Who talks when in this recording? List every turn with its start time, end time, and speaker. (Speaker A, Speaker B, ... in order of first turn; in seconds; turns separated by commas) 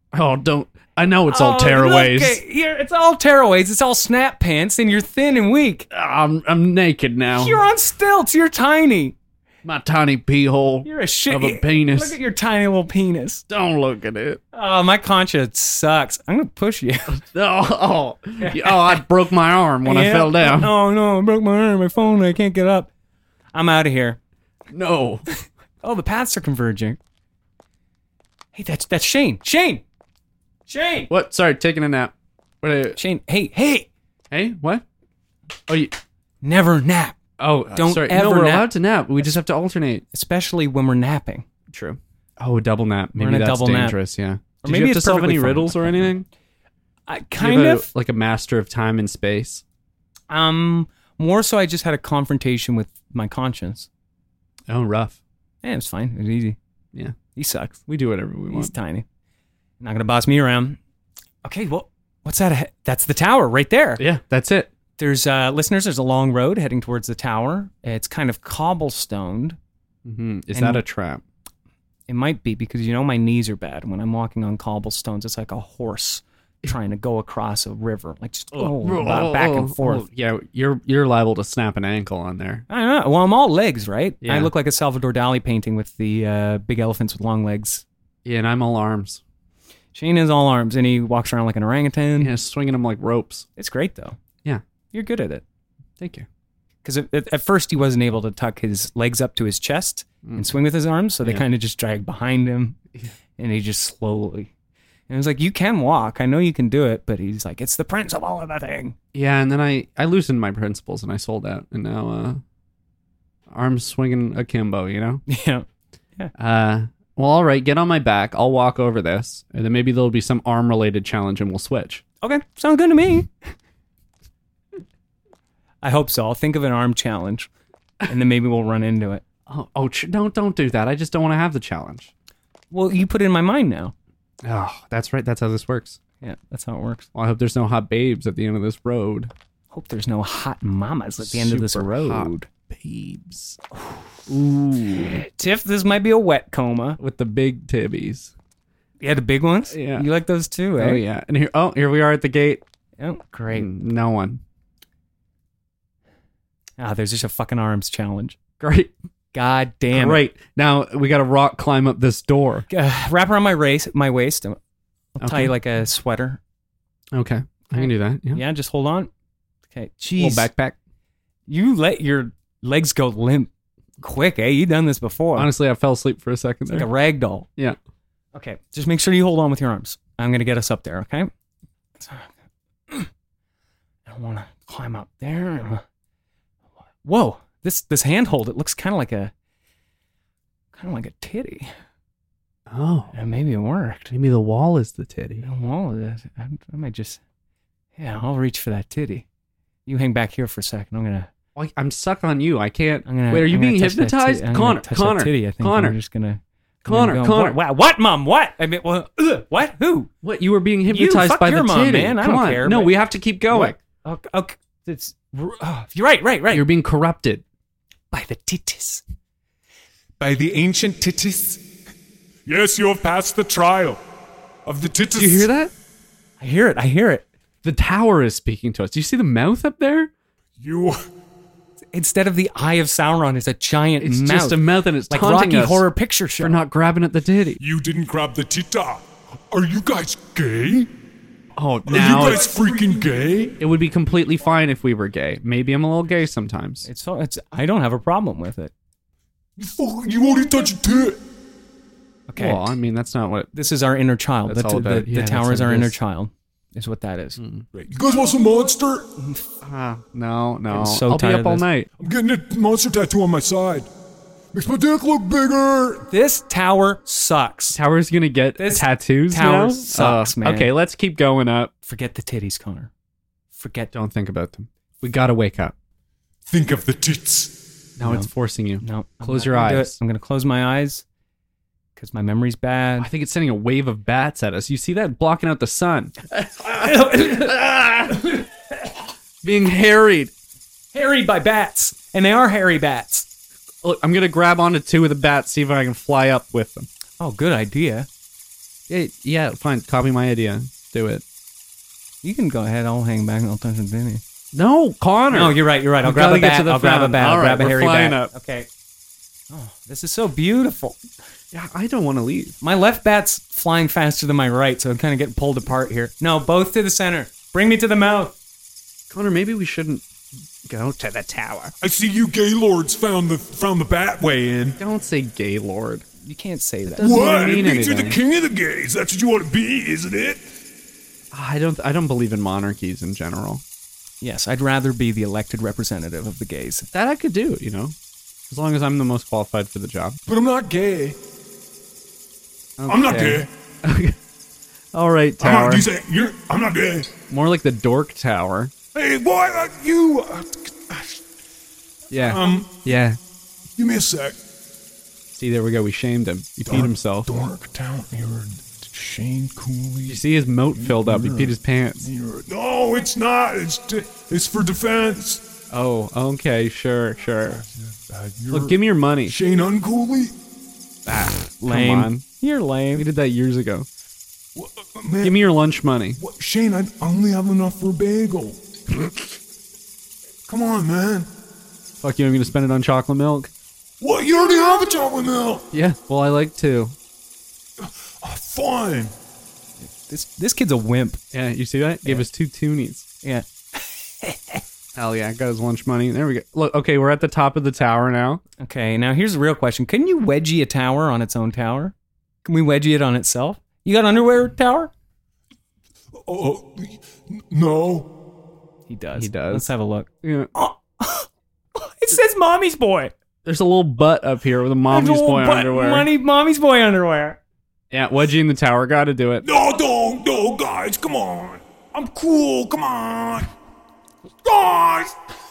Speaker A: 0.1-2.4, Speaker B: 1.3-5.9, Speaker A: 5.9-7.6, Speaker B: 7.3-9.2, Speaker A: 9.6-12.2, Speaker B: 10.8-13.4, Speaker A: 13.5-14.4, Speaker B: 14.5-17.2, Speaker A: 17.1-20.7, Speaker B: 18.4-19.0, Speaker B: 19.9-22.9, Speaker B: 23.5-24.2, Speaker A: 24.7-25.3, Speaker B: 25.8-27.0, Speaker B: 28.5-29.8, Speaker B: 30.7-31.1, Speaker A: 31.1-33.0, Speaker B: 33.0-33.9, Speaker A: 34.3-34.9, Speaker A: 35.7-36.0, Speaker B: 36.4-37.2, Speaker A: 37.4-40.0, Speaker B: 37.7-38.7, Speaker B: 40.1-41.5, Speaker A: 41.7-46.3, Speaker B: 43.1-44.0, Speaker B: 44.6-46.1, Speaker B: 47.1-47.9, Speaker A: 47.4-49.6, Speaker B: 50.3-53.9, Speaker A: 54.7-55.2, Speaker B: 55.6-56.6, Speaker B: 57.4-57.8, Speaker A: 57.9-58.7, Speaker B: 58.5-59.1, Speaker B: 59.8-60.8, Speaker B: 61.4-64.0, Speaker A: 64.0-64.7, Speaker B: 65.0-69.6, Speaker A: 70.0-71.2, Speaker B: 70.5-70.8, Speaker B: 72.1-80.1, Speaker A: 78.5-82.7, Speaker B: 82.7-87.8, Speaker A: 84.2-84.5, Speaker A: 88.2-89.2, Speaker B: 89.9-92.3, Speaker A: 92.2-93.5, Speaker B: 93.6-94.2, Speaker B: 94.9-95.4, Speaker A: 96.0-96.3, Speaker B: 96.8-102.8, Speaker B: 103.4-104.5, Speaker B: 105.1-109.0, Speaker A: 109.1-112.4, Speaker A: 113.5-115.2, Speaker B: 115.3-115.7, Speaker A: 116.3-122.0, Speaker B: 122.2-123.3, Speaker B: 125.8-127.5, Speaker B: 128.0-129.2, Speaker A: 129.5-132.1, Speaker B: 132.7-133.9, Speaker A: 134.4-136.0, Speaker B: 136.2-137.1, Speaker A: 137.2-139.3, Speaker B: 139.7-142.5, Speaker A: 141.2-143.6, Speaker A: 144.3-145.2, Speaker B: 145.0-147.0, Speaker A: 147.0-148.3, Speaker B: 149.0-151.0, Speaker A: 149.7-150.1, Speaker A: 150.8-152.6, Speaker B: 153.0-153.7, Speaker A: 153.5-154.4, Speaker B: 156.8-158.4, Speaker A: 158.6-158.9, Speaker B: 159.3-160.2, Speaker A: 159.9-162.7, Speaker B: 162.7-164.6, Speaker B: 165.2-166.4, Speaker A: 165.2-165.5, Speaker A: 167.1-168.4, Speaker B: 167.8-169.1, Speaker B: 169.7-170.5, Speaker A: 170.2-170.8, Speaker B: 171.5-175.5, Speaker A: 175.3-176.9, Speaker B: 176.7-177.5, Speaker B: 178.3-181.3, Speaker B: 182.0-182.3, Speaker B: 184.1-185.8, Speaker B: 187.0-189.3, Speaker B: 190.7-191.7, Speaker A: 192.7-193.1, Speaker B: 193.1-194.1, Speaker A: 194.1-195.5, Speaker B: 195.4-197.2, Speaker B: 198.0-199.2, Speaker B: 199.9-201.3, Speaker A: 201.6-206.0, Speaker B: 203.1-210.1, Speaker A: 206.8-207.6, Speaker A: 210.2-213.8, Speaker B: 210.9-213.0, Speaker B: 213.5-216.7, Speaker A: 216.5-217.4, Speaker B: 218.1-219.0, Speaker C: 220.2-221.6, Speaker C: 222.5-224.0, Speaker C: 224.7-225.5, Speaker A: 225.1-225.7, Speaker B: 226.4-227.3, Speaker A: 227.6-230.1, Speaker C: 230.6-231.0, Speaker B: 231.9-236.6, Speaker A: 234.0-235.9, Speaker A: 236.4-237.6, Speaker C: 237.6-240.9, Speaker A: 241.6-242.5, Speaker C: 241.9-243.6, Speaker A: 243.6-246.9, Speaker B: 246.8-248.7, Speaker C: 249.6-251.2, Speaker B: 252.3-252.7, Speaker A: 252.4-253.5, Speaker B: 253.5-257.4, Speaker A: 254.5-256.0, Speaker A: 257.4-257.6, Speaker C: 257.7-259.1, Speaker A: 259.6-261.9, Speaker B: 260.7-261.7, Speaker C: 262.0-263.9, Speaker C: 264.5-266.1, Speaker B: 266.1-267.8, Speaker A: 267.7-271.7, Speaker B: 268.6-270.7, Speaker B: 271.9-272.9, Speaker B: 273.5-273.9, Speaker A: 273.9-275.8, Speaker C: 276.5-277.6, Speaker A: 278.0-280.0, Speaker B: 278.0-278.3, Speaker B: 278.8-281.0, Speaker B: 282.0-283.1, Speaker A: 283.0-288.4, Speaker B: 286.8-288.5, Speaker A: 289.4-290.3, Speaker B: 290.9-293.3, Speaker A: 293.8-296.9, Speaker B: 297.2-298.1, Speaker A: 298.9-301.2, Speaker B: 302.2-304.2, Speaker A: 304.5-308.3, Speaker B: 305.3-308.7, Speaker B: 309.5-311.0, Speaker A: 311.5-312.6, Speaker B: 312.6-318.4, Speaker A: 319.1-320.0, Speaker A: 320.6-321.7, Speaker C: 321.8-324.8, Speaker A: 324.8-326.1, Speaker B: 326.2-327.3, Speaker A: 326.9-328.2, Speaker C: 327.0-330.5, Speaker A: 331.3-333.6, Speaker B: 334.2-336.9, Speaker A: 336.9-338.0, Speaker A: 338.5-340.2, Speaker C: 340.3-341.2, Speaker A: 342.8-344.2, Speaker C: 342.9-343.5, Speaker A: 344.9-345.9, Speaker C: 345.4-347.1, Speaker A: 347.3-348.7, Speaker C: 348.9-351.2, Speaker A: 352.1-353.2, Speaker C: 352.2-352.8, Speaker C: 353.8-354.4, Speaker A: 355.3-357.5, Speaker C: 356.7-360.2, Speaker A: 360.1-362.1, Speaker C: 360.8-365.4, Speaker A: 365.7-367.6, Speaker C: 367.5-370.4, Speaker A: 368.5-369.4, Speaker A: 371.1-372.2, Speaker B: 371.6-373.1, Speaker A: 372.9-373.9, Speaker C: 374.6-375.4, Speaker A: 375.2-376.2, Speaker C: 376.2-378.6, Speaker C: 380.5-381.3, Speaker A: 382.0-383.5, Speaker C: 384.0-385.7, Speaker A: 385.7-387.0, Speaker C: 387.8-389.1, Speaker B: 389.8-391.2, Speaker A: 391.3-393.1, Speaker B: 393.2-394.6, Speaker A: 394.9-398.4, Speaker B: 398.6-404.9, Speaker C: 406.3-408.1, Speaker B: 408.9-413.1, Speaker A: 409.1-409.7, Speaker A: 410.2-410.5, Speaker A: 413.4-416.1, Speaker B: 414.9-417.4, Speaker A: 417.9-419.5, Speaker C: 419.4-423.5, Speaker C: 424.4-425.1